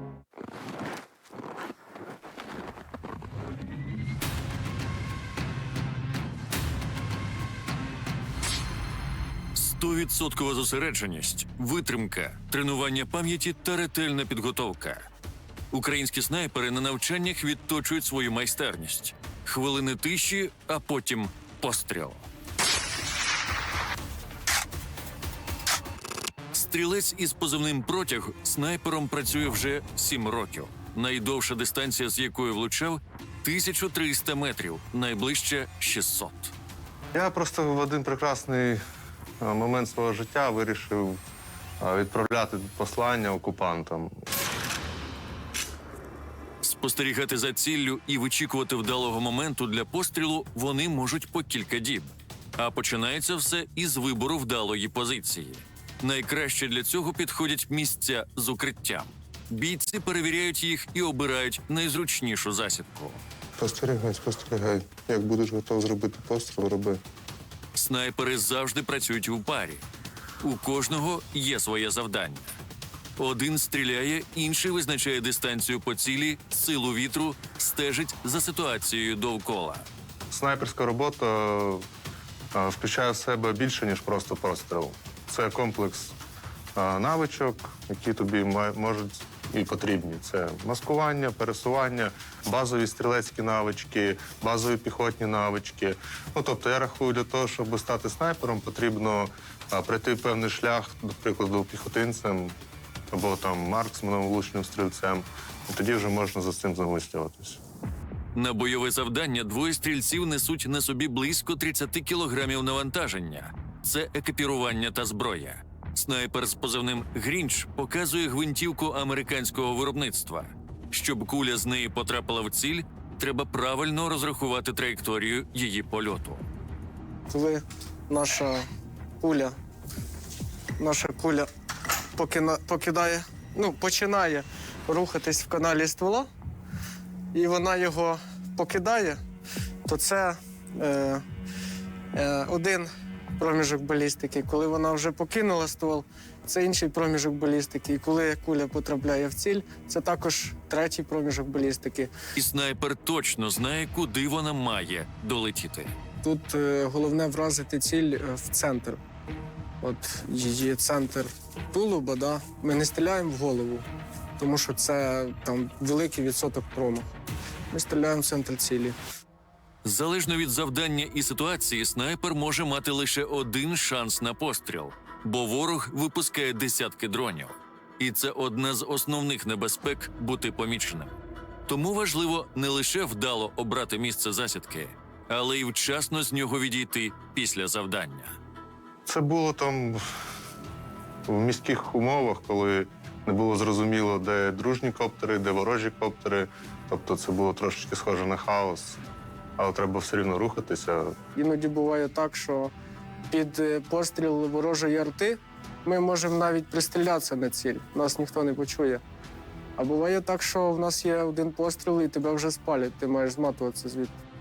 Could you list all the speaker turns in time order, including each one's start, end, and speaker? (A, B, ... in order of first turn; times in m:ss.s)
0:09.6-0:15.0 A
0:15.7-0:22.3 A
0:26.5-0:36.5 A
0:37.1-0:38.8 B
0:39.4-0:41.2 B
0:41.8-0:44.2 B
0:46.6-1:03.2 A
1:03.6-1:07.0 B
1:07.8-1:09.8 A
1:10.4-1:12.6 A
1:13.2-1:19.9 A
1:20.3-1:21.8 B
1:22.5-1:26.2 B
1:26.8-1:42.6 B
1:43.1-1:47.6 B
1:48.4-2:06.4 A
2:07.3-2:08.6 C
2:09.2-2:09.6 C
2:10.8-2:11.5 C
2:12.2-2:16.3 C
2:17.3-2:19.2 C
2:19.9-2:21.2 C
2:22.1-2:32.1 C
2:32.4-2:35.9 A
2:36.2-2:39.0 C
2:39.8-2:43.9 C
2:44.4-2:47.1 C
2:47.7-2:49.0 C
2:49.8-3:01.1 A
3:01.7-3:08.4 A
3:09.1-3:10.0 B
3:11.3-3:19.0 B
3:19.6-3:21.2 B
3:21.4-3:22.7 C
3:23.3-3:29.0 C
3:29.8-3:34.1 C